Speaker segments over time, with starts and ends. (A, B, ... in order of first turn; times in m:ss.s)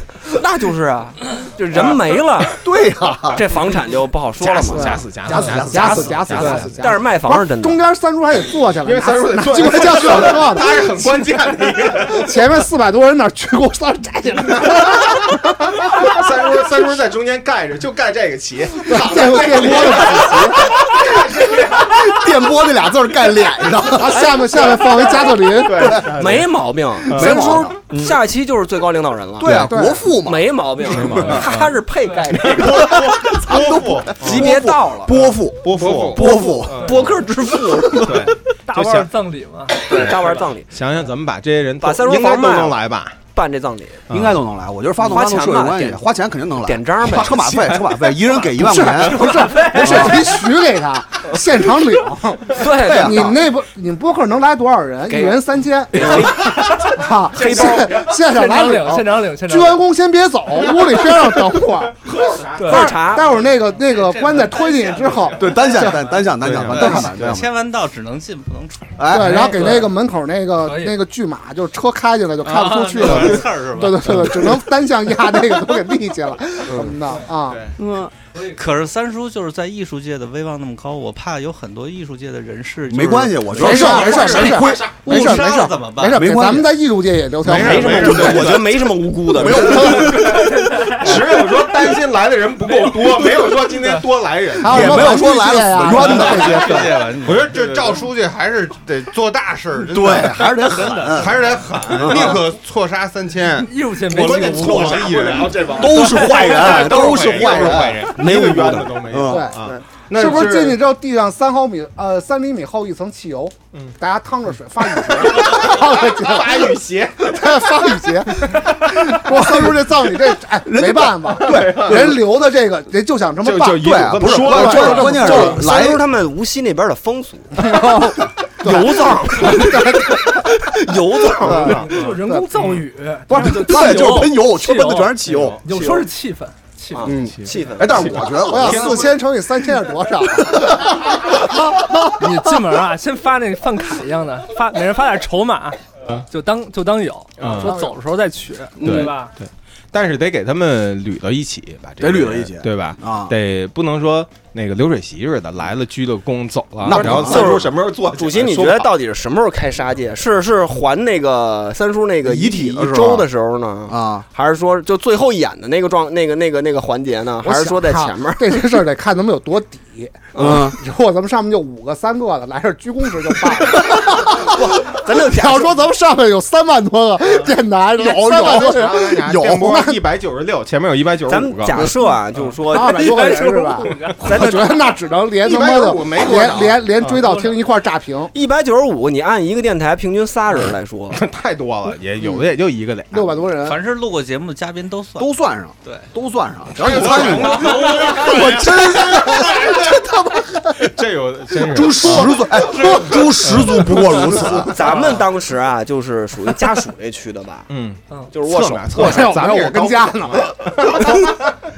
0:00.3-0:02.6 A
0:02.6-0:03.5 B
0:03.3-0:05.0 A
0:04.4-0:06.8 C
0:04.7-0:11.2 D
0:05.2-0:06.2 B
0:06.3-0:07.8 A
0:08.8-0:12.4 C
0:12.0-0:15.8 D
0:15.8-0:22.0 C
0:18.8-0:20.8 D
0:21.6-0:24.3 B
0:24.0-0:26.0 D
0:24.8-0:26.5 C
0:25.8-0:26.1 B
0:26.1-0:29.7 A
0:27.0-0:27.8 B
0:27.1-0:28.1 C
0:29.4-0:31.4 B
0:29.7-0:30.1 D
0:30.2-0:33.4 A
0:30.8-0:31.7 C
0:32.3-0:34.5 C
0:32.6-0:33.0 E
0:33.5-0:36.9 B
0:33.6-0:34.3 E
0:34.2-0:35.1 A
0:35.6-0:36.2 E
0:35.7-0:37.0 C
0:36.2-0:38.3 A
0:36.8-0:37.1 F
0:38.0-0:39.1 C
0:38.7-0:40.4 F
0:39.9-0:40.7 A
0:39.9-0:43.2 C
0:41.8-0:42.8 A
0:43.3-0:44.1 A
0:44.1-0:44.4 C
0:44.1-0:50.1 B
0:45.0-0:46.1 A
0:46.6-0:47.4 A
0:47.0-0:48.4 C
0:48.6-1:05.5 D
0:48.9-0:50.3 F
0:52.5-0:53.4 A
0:52.7-0:53.4 B
0:55.1-0:58.0 A
0:57.5-0:59.8 F
1:02.0-1:03.4 C
1:02.6-1:03.0 F
1:02.7-1:03.4 A
1:03.9-1:05.4 G
1:05.0-1:07.2 C
1:05.4-1:07.5 B
1:06.8-1:09.0 G
1:09.0-1:09.6 B
1:09.1-1:17.7 D
1:09.2-1:09.9 F
1:10.6-1:11.0 F
1:12.4-1:14.5 G
1:16.7-1:16.9 A
1:17.8-1:18.1 B
1:18.4-1:26.2 G
1:22.9-1:25.5 B
1:23.6-1:28.4 D
1:23.6-1:25.2 C
1:26.1-1:26.7 B
1:27.4-1:28.6 C
1:27.5-1:30.4 A
1:27.6-1:28.3 E
1:27.6-1:30.3 B
1:29.6-1:35.2 C
1:30.4-1:31.0 F
1:34.6-1:36.9 D
1:34.6-1:36.9 B
1:36.0-1:37.7 G
1:36.2-1:38.0 C
1:37.2-1:40.5 E
1:39.8-1:41.4 B
1:40.6-1:41.3 G
1:41.1-1:46.1 E
1:41.2-1:42.5 C
1:42.0-1:42.4 B
1:43.4-1:46.6 F
1:44.1-1:50.8 C
1:45.6-1:49.5 B
1:46.9-1:48.0 E
1:49.3-1:49.6 D
1:50.1-2:05.6 D
1:55.1-1:57.8 C
1:58.6-1:59.1 C
2:00.6-2:02.4 B
2:01.4-2:02.2 C
2:03.4-2:05.5 C
2:03.7-2:06.0 B
2:04.6-2:07.9 A
2:07.6-2:10.5 D
2:08.6-2:11.8 A
2:11.4-2:12.5 D
2:11.4-2:17.1 F
2:11.5-2:12.8 C
2:13.3-2:15.6 B
2:15.2-2:15.6 C
2:15.7-2:16.1 A
2:16.9-2:18.2 A
2:17.1-2:19.0 B
2:17.4-2:19.2 C
2:18.5-2:22.0 D
2:22.2-2:29.3 F
2:27.4-2:27.7 C
2:27.6-2:28.0 D
2:28.8-2:29.1 B
2:28.8-2:38.9 C
2:32.0-2:33.3 B
2:36.8-2:37.6 B
2:36.9-2:48.6 A
2:42.2-2:43.3 B
2:43.9-2:44.3 B
2:47.4-3:00.0 D
2:50.3-2:50.7 A
2:50.4-2:50.8 B
2:54.1-2:55.8 A
2:58.0-2:59.6 B
2:58.3-3:01.9 C
3:01.3-3:03.4 A
3:02.7-3:08.3 D
3:02.8-3:04.3 F
3:04.2-3:04.8 A
3:05.4-3:07.1 C
3:07.1-3:07.6 F
3:08.3-3:11.2 A
3:11.1-3:13.4 C
3:13.1-3:13.8 D
3:13.6-3:16.1 G
3:15.2-3:20.5 B
3:16.8-3:19.8 C
3:17.0-3:18.0 E
3:20.8-3:24.7 C
3:21.6-3:24.8 B
3:24.3-3:27.7 A
3:27.7-3:31.4 C
3:28.3-3:29.3 A
3:28.9-3:30.6 D